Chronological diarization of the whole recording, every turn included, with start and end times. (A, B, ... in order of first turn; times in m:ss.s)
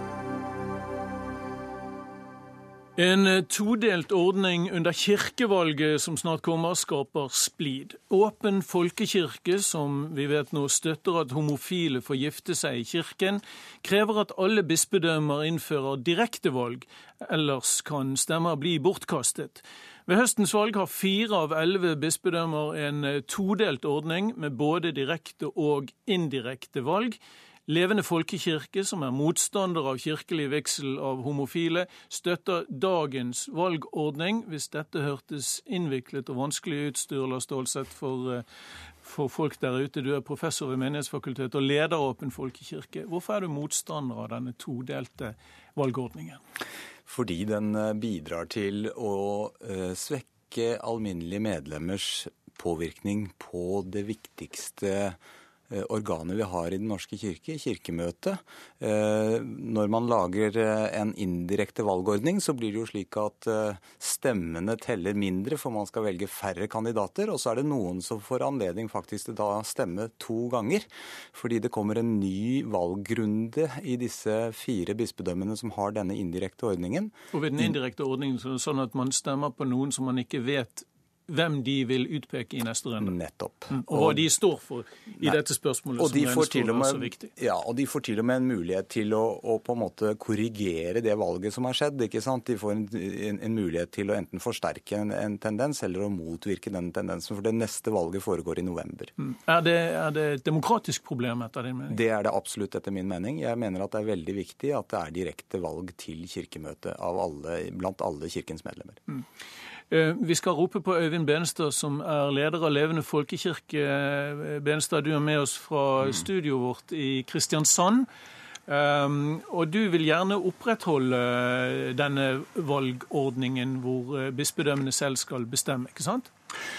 0:03.0-0:38.4 A
0:39.0-0:46.4 A
0:47.0-0:55.2 B
0:55.7-1:17.8 B
1:17.3-1:23.1 A
1:23.0-1:24.4 B
1:23.7-1:27.3 A
1:26.0-1:39.1 B
1:39.2-1:42.0 A
1:41.9-1:49.0 B
1:49.9-1:58.1 A
1:58.7-2:06.3 A